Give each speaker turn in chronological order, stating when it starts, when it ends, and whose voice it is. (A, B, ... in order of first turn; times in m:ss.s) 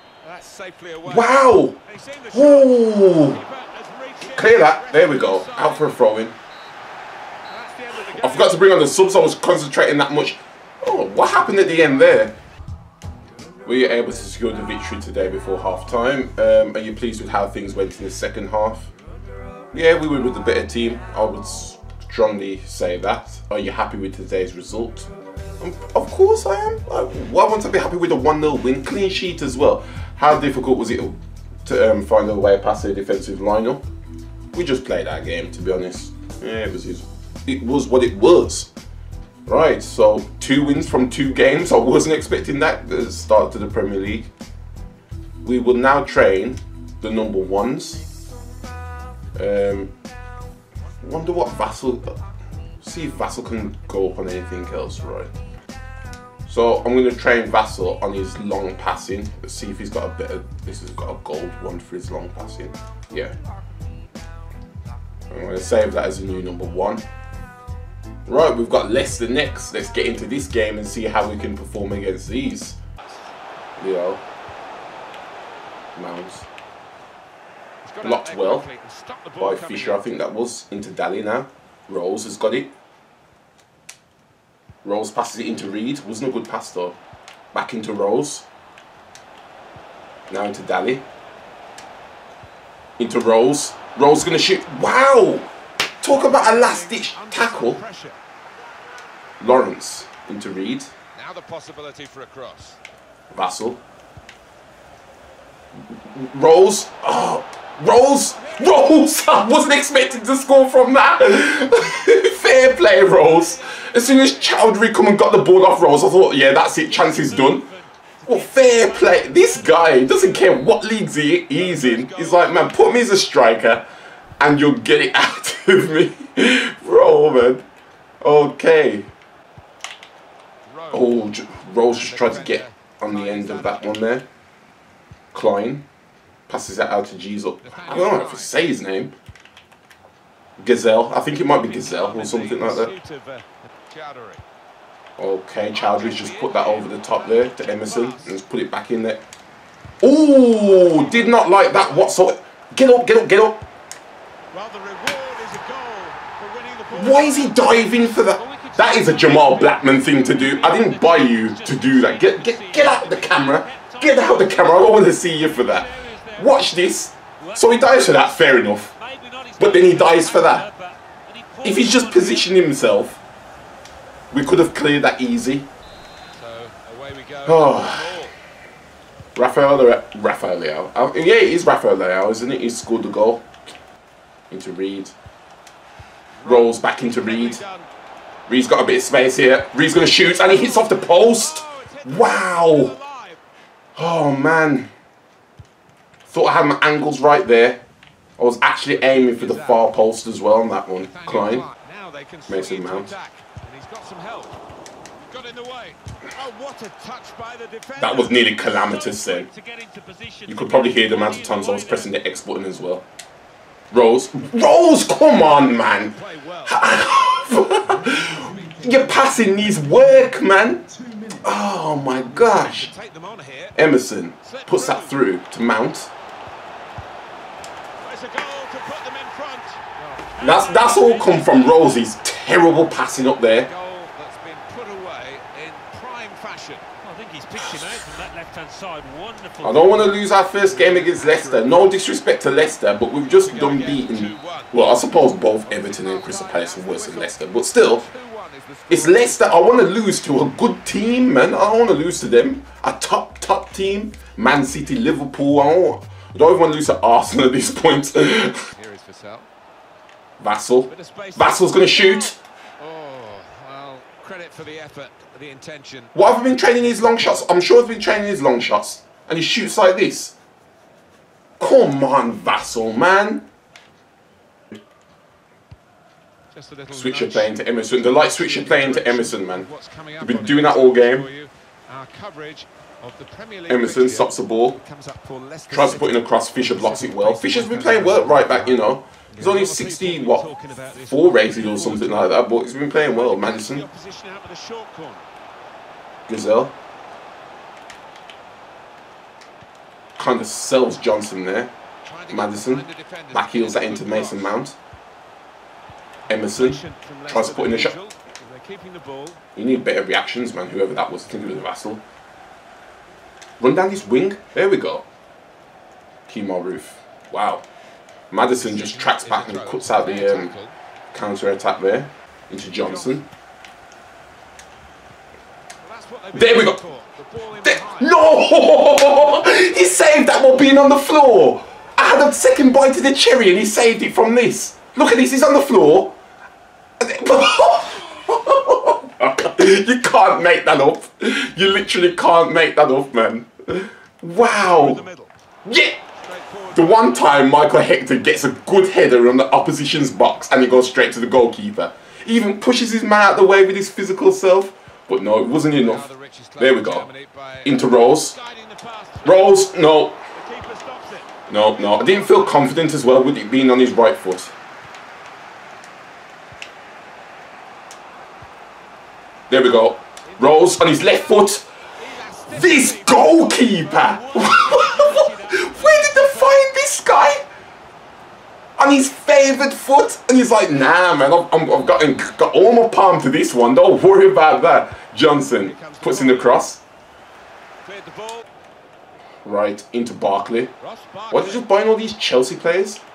0:00.2-0:06.1 A
0:01.0-0:01.8 B
0:02.3-0:03.4 B
0:04.3-0:06.4 B
0:07.5-0:09.2 A
0:08.1-0:12.4 B
0:13.7-0:18.9 B
0:19.7-0:25.1 B
0:25.6-0:33.8 B
0:34.5-0:38.7 B
0:39.5-0:44.3 B
0:45.4-0:48.0 B
0:49.4-0:49.9 B
0:51.0-0:52.2 B
0:52.8-0:55.3 B
0:56.5-1:03.3 B
1:05.3-1:07.0 B
1:08.3-1:12.8 B
1:13.8-1:14.2 B
1:16.0-1:16.4 B
1:17.8-1:20.1 A
1:18.0-1:18.7 B
1:19.4-1:22.7 B
1:24.8-1:27.0 B
1:27.5-1:28.5 B
1:30.3-1:31.0 B
1:33.0-1:35.5 B
1:36.0-1:37.8 B
1:36.1-1:38.2 A
1:39.4-1:40.9 B
1:41.2-1:42.8 A
1:43.3-1:43.8 B
1:45.9-1:57.7 B
1:48.2-1:49.4 A
1:53.8-1:54.6 A
1:54.0-1:54.3 C
1:56.5-1:59.7 C
1:58.3-2:03.9 B
2:01.5-2:03.1 A
2:04.4-2:07.6 B
2:08.2-2:09.1 B
2:10.7-2:11.3 A
2:10.9-2:14.3 B
2:11.9-2:14.0 A
2:15.3-2:15.9 B
2:16.5-2:19.2 B
2:17.6-2:18.6 A
2:20.6-2:22.9 B
2:21.5-2:24.4 A
2:25.2-2:29.2 B
2:25.7-2:28.4 A
2:30.0-2:33.6 B
2:30.6-2:32.2 A
2:34.5-2:38.0 A
2:36.9-2:48.9 B
2:38.0-2:46.7 C
2:47.4-2:52.7 C
2:49.6-2:50.7 B
2:51.6-2:53.2 B
2:54.3-2:55.7 B
2:56.3-2:58.4 A
2:57.5-2:58.3 B
2:59.4-3:03.5 B
3:04.5-3:05.1 B
3:06.4-3:07.9 A
3:06.4-3:07.6 B
3:08.5-3:13.0 B
3:10.0-3:13.4 A
3:14.0-3:14.9 B
3:16.3-3:17.8 B
3:18.4-3:21.7 B
3:18.9-3:19.9 A
3:21.0-3:24.6 A
3:22.5-3:23.1 B
3:25.3-3:28.9 A
3:28.0-3:29.5 B
3:28.6-3:32.3 C
3:30.5-3:33.1 B
3:33.9-3:42.9 B
3:35.4-3:37.0 A
3:42.3-3:43.8 A
3:43.8-3:46.1 B
3:44.4-3:45.2 A
3:48.0-3:52.0 A
3:50.4-3:53.7 B
3:50.6-3:51.5 C
3:53.6-3:56.8 A
3:57.0-4:00.2 C
3:59.6-4:08.1 B
4:00.5-4:02.0 A
4:03.2-4:09.7 A
4:08.9-4:18.7 B
4:18.7-4:19.5 A
4:20.4-4:22.4 B
4:20.9-4:22.0 A
4:22.8-4:26.1 A
4:26.1-4:30.4 B
4:31.6-4:33.5 B
4:36.5-4:52.4 A
4:36.9-4:41.3 B
4:43.7-4:44.8 B
4:45.7-4:53.9 B
4:52.9-4:55.3 A
4:56.3-4:56.8 B
5:00.2-5:01.7 B
5:02.0-5:04.6 A
5:02.3-5:04.8 B
5:06.3-5:08.0 B
5:06.5-5:09.4 A
5:09.6-5:12.0 B
5:13.6-5:15.0 B
5:16.3-5:17.6 B
5:18.3-5:20.5 B
5:18.6-5:20.8 A
5:21.1-5:23.3 B
5:22.8-5:23.2 A
5:25.8-5:28.6 A
5:26.3-5:26.8 B
5:27.6-5:36.2 B
5:29.4-5:30.2 A
5:37.0-5:45.0 B
5:44.4-5:45.3 A
5:45.6-5:46.0 B
5:46.2-5:47.3 A
5:46.7-5:57.1 B
5:55.7-5:59.7 A
5:57.6-5:58.4 B
5:59.2-6:00.2 B
6:00.4-6:02.7 A
6:01.5-6:04.5 B
6:09.5-6:11.7 B
6:10.3-6:11.4 A
6:12.0-6:16.0 A
6:12.5-6:17.5 B
6:14.7-6:16.5 C
6:18.8-6:26.8 B
6:25.5-6:26.6 A
6:27.8-6:28.5 A
6:29.4-6:30.7 B
6:30.8-6:31.7 A
6:31.3-6:33.0 B